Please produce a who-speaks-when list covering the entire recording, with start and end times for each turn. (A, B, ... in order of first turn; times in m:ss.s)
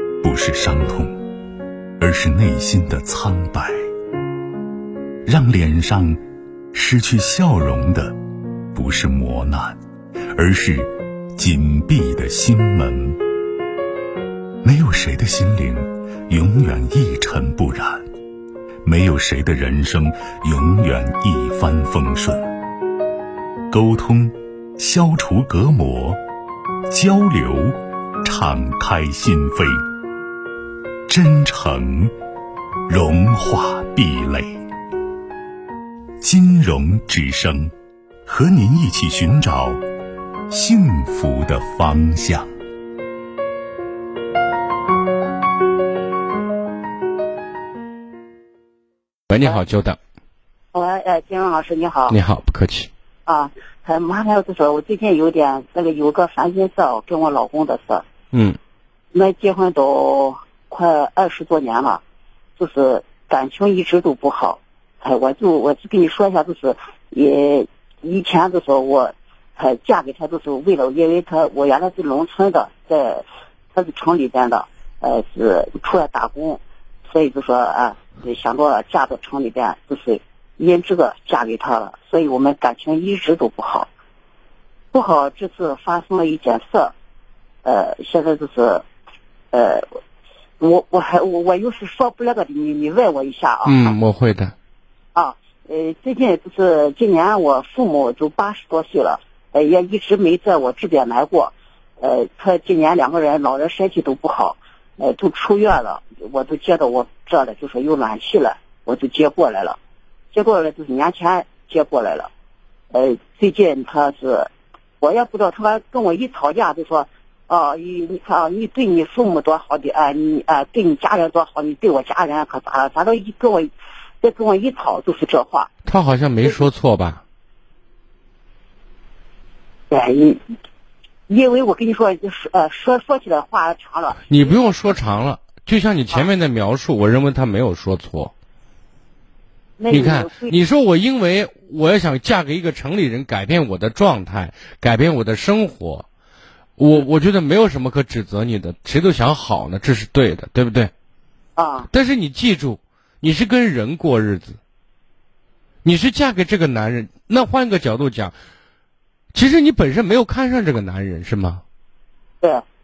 0:00.2-0:01.2 A
0:02.0-0:03.8 A
0:05.3-0:06.2 A
0:06.7-0:08.2 A
0:08.7-0:09.8 A
0:10.4-0:13.2 A
0:14.6-0:18.0 A
0:18.8-0:22.5 A
0:23.7-0:26.2 A
0:26.9-0:29.8 A
0:31.1-0:32.1 A
0:32.9-0:34.6 A
0:36.2-0:37.7 A
0:38.3-0:39.8 A
0:40.5-0:42.5 A
0:49.3-0:50.0 B
0:50.7-0:52.2 C
0:52.1-0:52.9 B
0:53.3-0:58.0 C
0:58.3-0:58.6 B
0:59.1-1:02.0 C
1:02.6-1:23.9 C
1:24.9-1:26.9 C
1:27.6-1:28.8 C
1:29.5-1:29.9 C
1:30.6-1:34.0 C
1:33.6-1:34.5 B
1:35.2-1:49.8 C
1:50.3-1:52.3 C
1:52.9-1:54.5 C
1:55.0-2:05.7 C
2:05.8-2:07.2 B
2:09.9-2:10.4 C
2:11.3-2:14.8 C
2:14.3-2:18.3 B
2:19.8-2:20.6 C
2:19.9-2:26.1 B
2:26.8-2:30.9 B
2:31.6-2:31.9 C
2:31.9-2:34.6 B
2:35.8-2:38.3 B
2:39.3-2:41.6 B